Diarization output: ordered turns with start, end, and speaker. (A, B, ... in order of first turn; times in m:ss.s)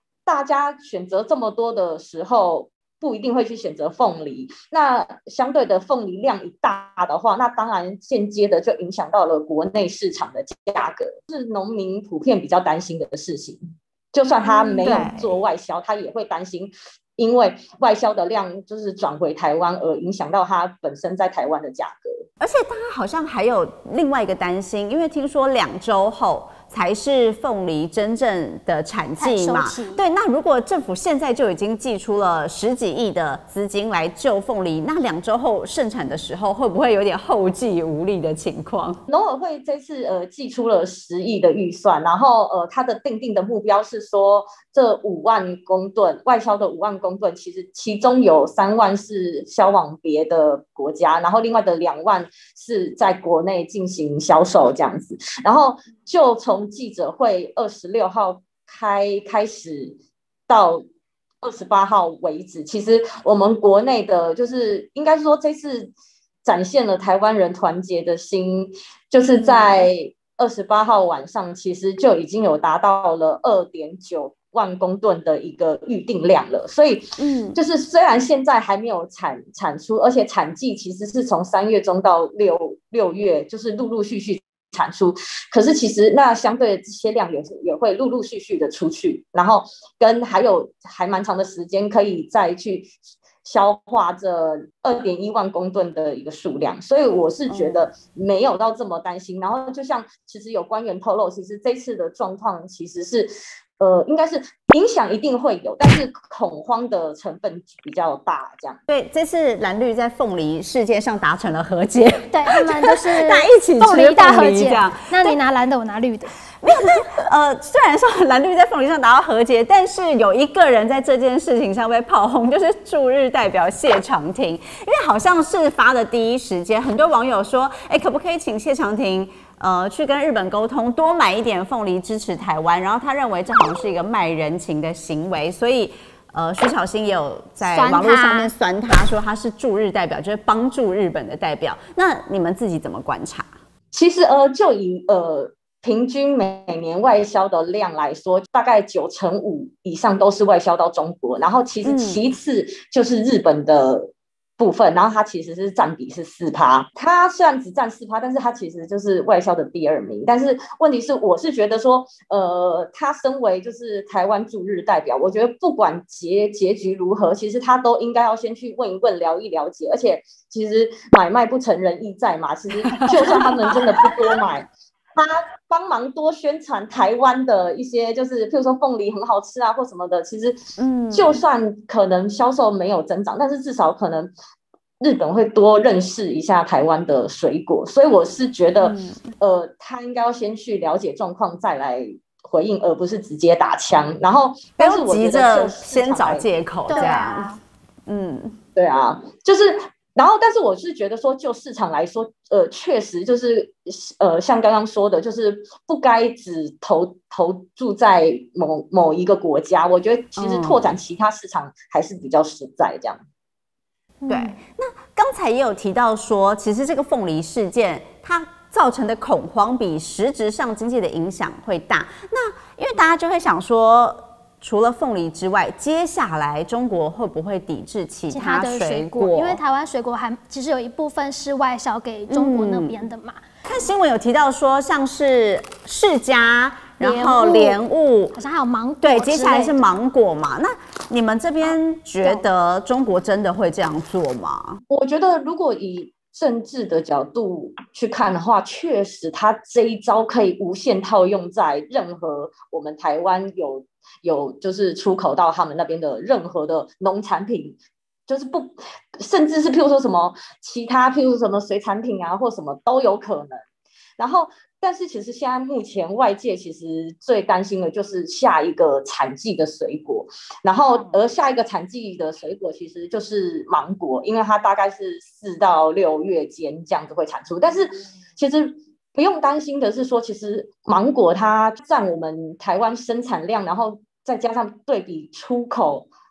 0:00.2-0:13.6 A
0:14.1-0:22.2 A
0:14.4-0:15.0 B
0:14.8-0:15.3 C
0:22.4-0:39.0 C
0:29.2-0:30.0 B
0:39.1-1:00.8 A
1:01.4-1:05.9 A
1:06.4-1:32.9 A
1:09.4-1:09.8 C
1:17.2-1:17.6 C
1:33.4-1:48.8 A
1:37.5-1:37.9 C
1:48.9-1:55.4 C
1:52.3-1:56.3 B
1:56.6-2:23.5 C
2:17.6-2:18.5 B
2:23.9-3:00.6 A
2:31.8-2:32.2 C
2:53.0-2:53.5 C
3:00.8-3:01.4 C
3:01.1-3:04.3 A
3:05.0-3:17.1 A
3:08.8-3:09.2 C
3:14.8-3:17.5 C
3:16.9-3:17.6 B
3:18.1-3:18.6 C
3:18.8-3:33.2 A
3:30.4-3:30.9 C
3:34.2-3:34.6 B
3:34.3-3:49.6 C
3:48.3-3:53.4 B
3:52.3-3:53.0 C
3:53.6-3:58.4 C
3:57.0-3:57.8 B
3:58.3-3:59.8 B
3:59.0-4:04.8 C
4:04.9-4:23.6 A
4:24.2-4:46.1 A